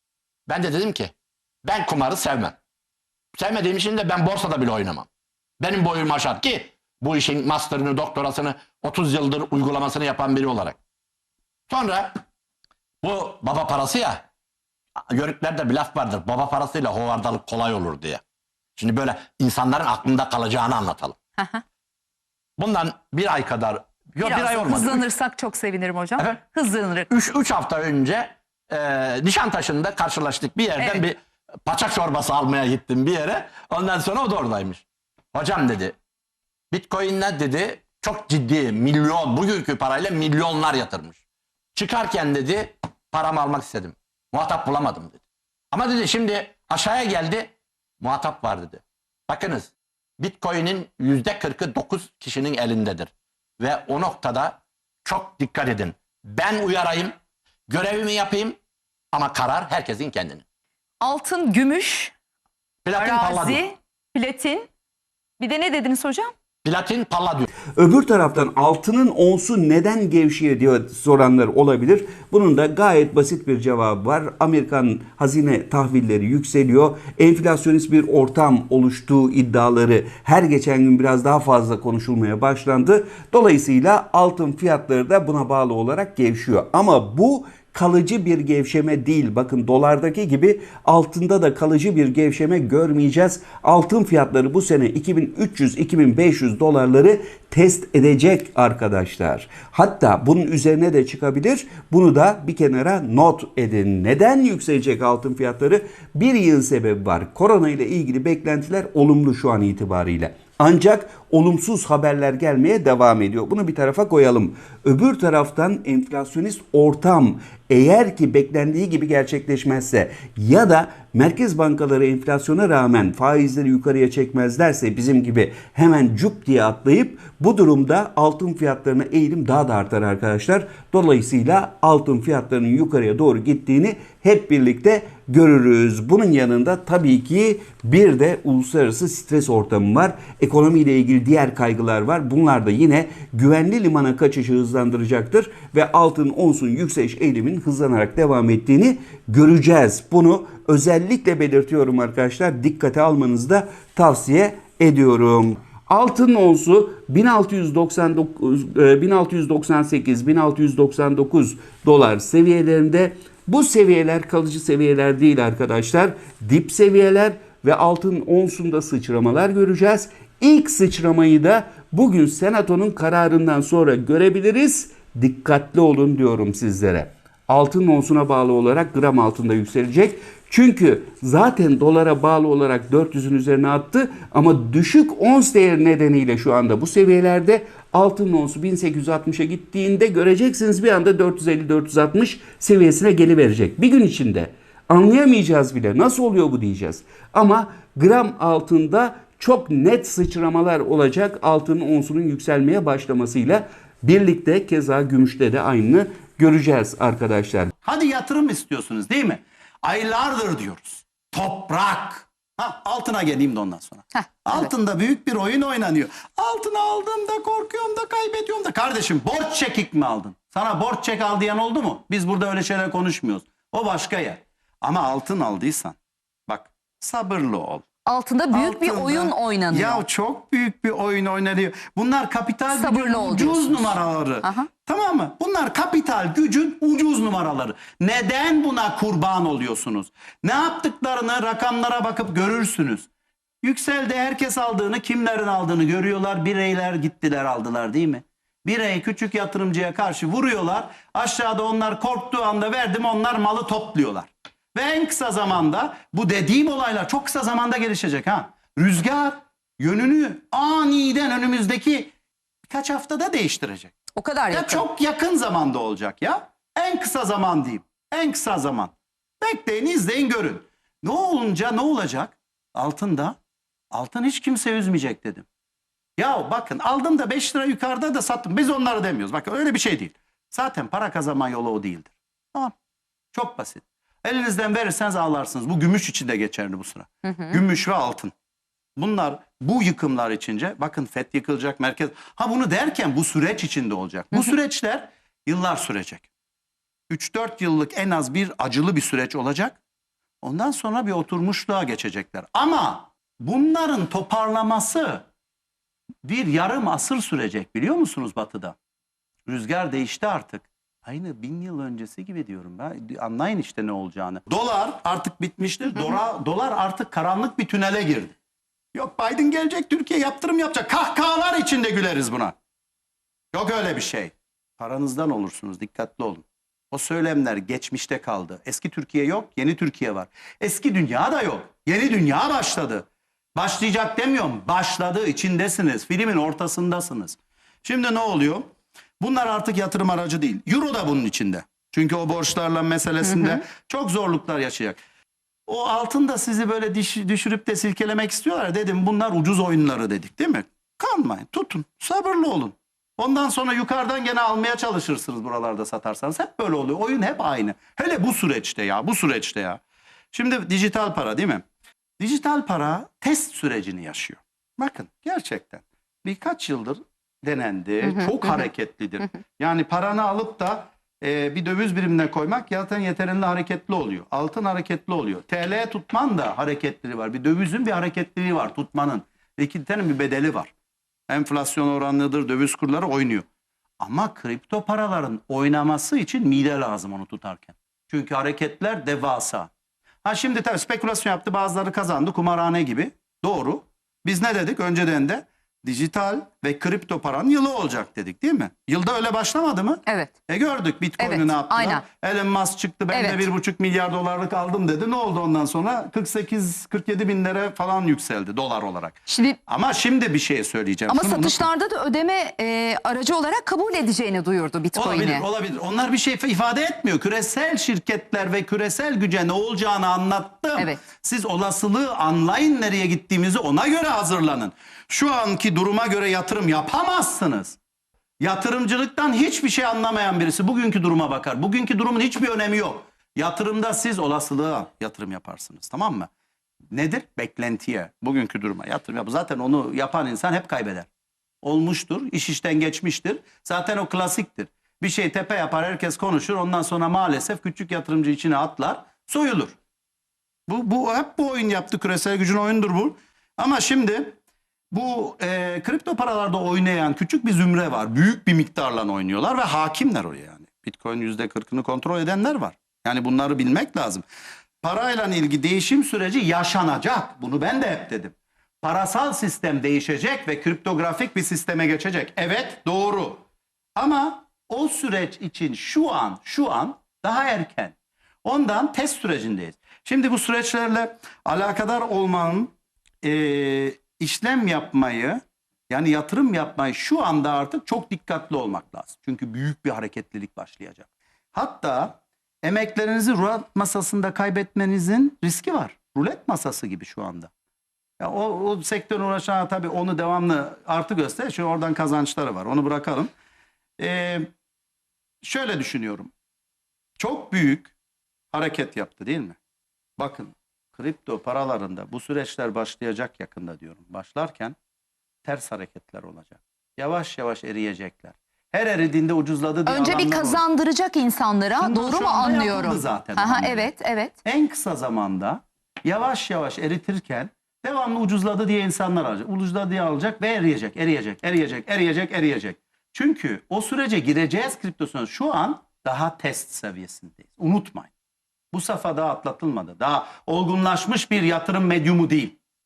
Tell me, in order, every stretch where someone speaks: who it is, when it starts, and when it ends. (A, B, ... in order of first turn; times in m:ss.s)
0:00.5-0:01.1 A
0:01.6-0:02.6 A
0:03.3-0:05.1 A
0:05.6-0:10.8 A
0:11.7-0:12.2 A
0:13.0-0:14.2 A
0:15.1-0:18.2 A
0:18.8-0:21.2 A
0:22.6-0:25.0 A
0:24.2-0:27.1 B
0:27.1-0:36.0 A
0:30.8-0:31.0 B
0:36.7-0:41.2 A
0:41.8-0:45.2 A
0:45.7-0:57.1 A
0:57.7-0:58.6 A
0:59.1-1:00.4 A
1:01.0-1:02.1 B
1:02.8-1:03.6 A
1:03.0-1:04.7 B
1:05.4-1:06.3 B
1:06.6-1:07.5 A
1:07.8-3:27.7 C
3:27.8-3:46.0 D
3:34.1-3:34.7 B
3:46.5-3:47.8 D
3:48.1-3:50.0 B
3:48.5-4:03.1 D
3:52.7-3:54.7 B
4:03.6-4:22.1 D
4:22.7-4:23.9 D
4:24.2-4:24.8 B
4:24.5-4:33.4 D
4:33.9-4:35.5 D
4:36.2-4:42.7 D
4:43.3-4:48.3 D
4:47.3-4:47.6 B
4:49.0-4:56.3 D
4:57.1-4:59.8 D
5:00.4-5:05.3 D
5:06.2-5:08.8 D
5:09.5-5:18.4 D
5:18.9-5:22.6 D
5:23.5-5:45.0 D
5:43.2-5:43.6 B
5:45.7-5:59.8 D
6:00.3-6:01.6 D
6:02.2-6:20.7 D
6:08.0-6:08.6 B
6:21.3-6:23.5 D
6:24.0-6:29.7 D
6:30.2-6:51.7 D
6:40.1-6:40.3 B
6:41.2-6:42.0 B
6:43.1-6:43.5 B
6:49.3-6:49.6 B
6:51.1-6:55.4 B
6:54.9-7:07.8 D
7:00.8-7:01.0 B
7:08.4-7:16.3 D
7:16.9-7:21.1 D
7:21.6-7:29.8 D
7:30.7-7:34.4 D
7:34.9-7:44.3 D
7:44.8-7:53.4 D
7:54.0-8:17.5 D
8:18.2-8:23.3 D
8:24.0-8:24.5 D
8:25.4-8:26.3 D
8:27.2-8:27.9 D
8:28.5-8:29.6 D
8:30.2-8:34.8 D
8:35.4-8:40.6 D
8:39.9-8:44.4 B
8:41.8-8:43.9 D
8:44.4-8:58.1 D
8:58.7-9:02.6 D